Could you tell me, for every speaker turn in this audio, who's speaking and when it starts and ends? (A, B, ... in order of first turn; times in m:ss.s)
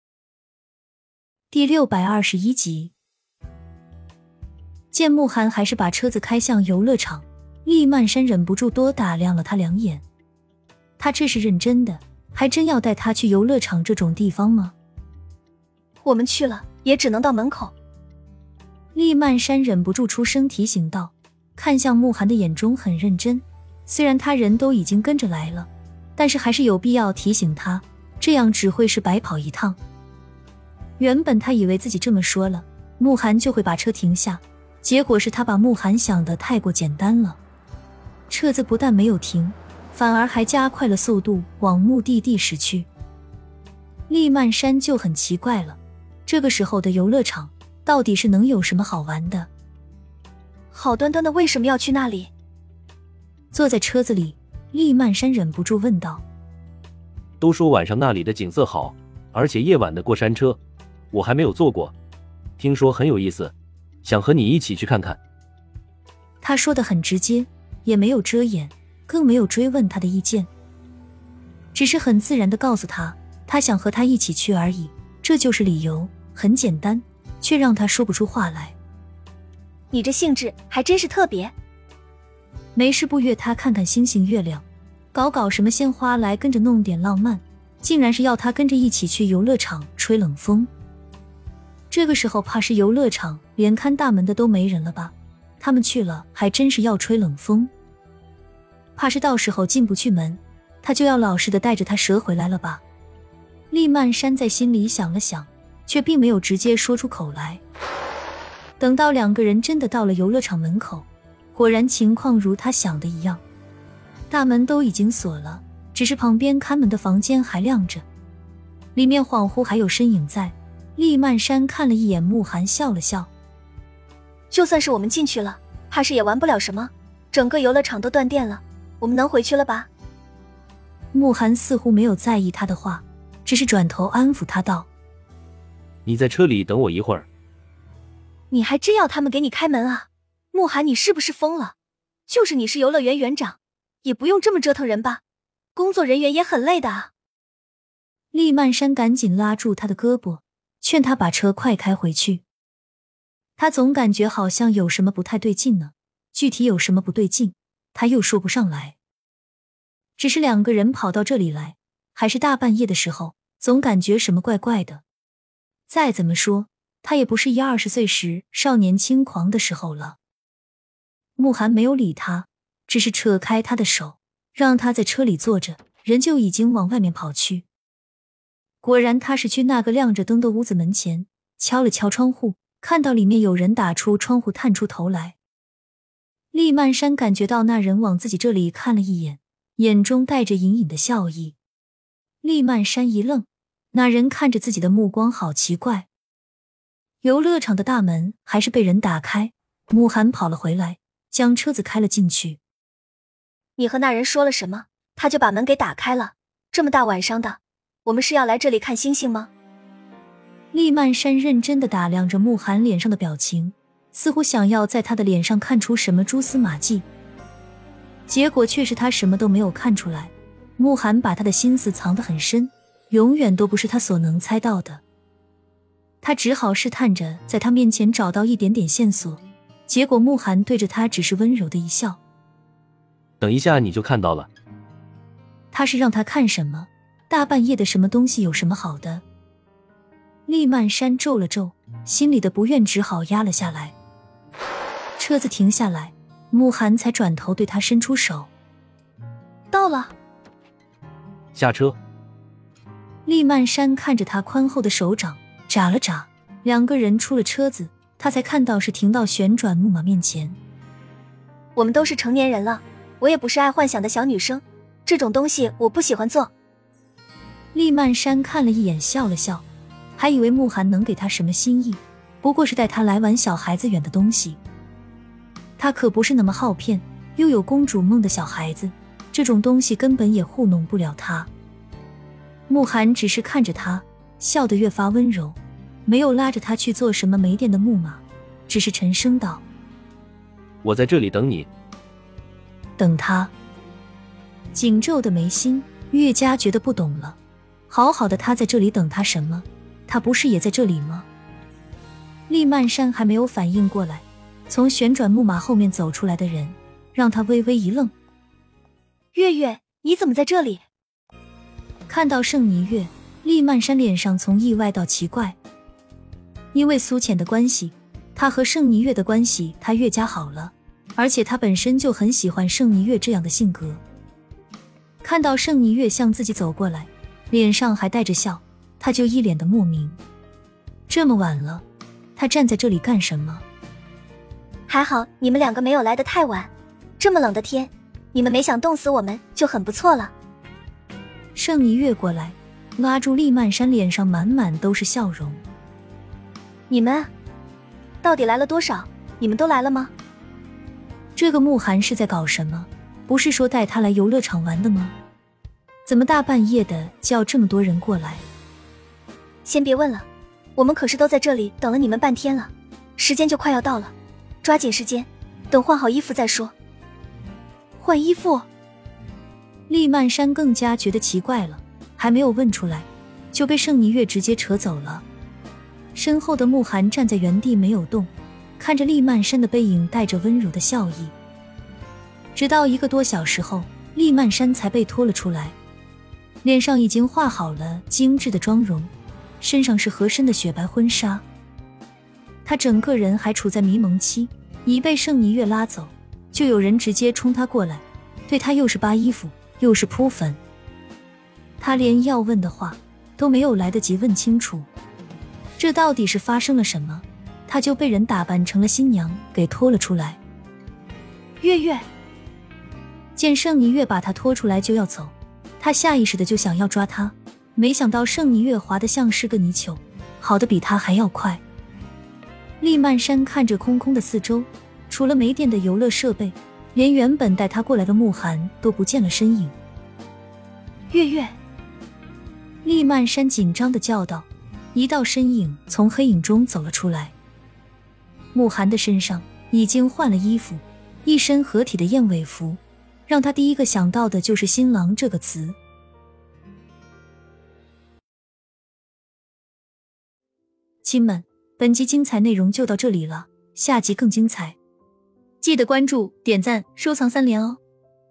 0:01.5-0:02.9 A
0:04.9-0:10.0 A
0:11.0-0:14.7 A
0:16.0-0:17.7 B
0:18.9-0:29.8 A
0:31.0-0:37.4 A
0:38.3-0:42.9 A
0:44.1-0:49.5 A
0:50.7-0:52.3 B
0:53.5-0:56.2 A
0:57.4-1:00.6 C
1:01.1-1:01.9 C
1:02.6-1:05.2 C
1:06.4-1:10.5 A
1:11.7-1:18.8 A
1:19.9-1:21.5 B
1:22.7-1:30.7 A
1:31.9-1:37.7 A
1:39.0-1:42.8 A
1:43.7-1:47.6 A
1:48.8-1:53.4 A
1:54.3-1:58.0 A
1:58.9-2:03.3 A
2:04.5-2:09.9 B
2:11.1-2:14.9 A
2:16.0-2:17.3 C
2:18.5-2:21.7 B
2:22.3-2:25.2 B
2:25.7-2:27.1 B
2:28.3-2:32.4 A
2:33.6-2:39.0 A
2:40.2-2:45.0 A
2:45.9-2:50.2 A
2:51.4-2:57.6 A
2:58.8-3:05.4 A
3:06.5-3:11.6 A
3:12.4-3:16.1 A
3:17.2-3:22.6 A
3:23.8-3:29.5 B
3:30.7-3:37.0 A
3:38.3-3:45.0 A
3:46.2-3:52.2 A
3:53.4-3:54.5 C
3:55.7-3:59.2 A
4:00.5-4:03.9 A
4:05.2-4:08.5 A
4:09.7-4:10.1 B
4:11.5-4:12.0 C
4:13.2-4:20.6 A
4:21.8-4:26.5 B
4:27.7-4:29.6 A
4:30.2-4:34.6 A
4:35.8-4:41.5 A
4:42.7-4:49.6 A
4:50.8-4:51.7 C
4:53.0-4:53.5 A
4:54.7-4:57.4 A
4:57.9-5:01.3 A
5:02.5-5:08.1 A
5:09.3-5:10.8 B
5:12.1-5:15.6 A
5:16.7-5:24.0 A
5:25.2-5:30.2 A
5:31.1-5:31.8 A
5:32.4-5:33.6 A
5:34.9-5:40.3 B
5:41.5-5:45.6 A
5:46.9-5:47.3 B
5:48.2-5:50.1 B
5:51.4-5:55.1 A
5:56.0-5:58.4 A
5:59.6-6:00.2 B
6:00.8-6:06.7 B
6:08.0-6:08.7 B
6:09.9-6:15.2 A
6:16.1-6:21.3 A
6:22.5-6:25.8 A
6:26.6-6:31.4 A
6:32.6-6:40.6 A
6:41.8-6:44.9 A
6:45.8-6:50.4 A
6:51.6-6:52.0 B
6:53.4-7:01.6 A
7:02.8-7:09.7 A
7:11.1-7:11.5 B
7:12.8-7:17.3 A
7:18.5-7:25.8 A
7:31.0-7:34.8 A
7:35.6-7:37.8 A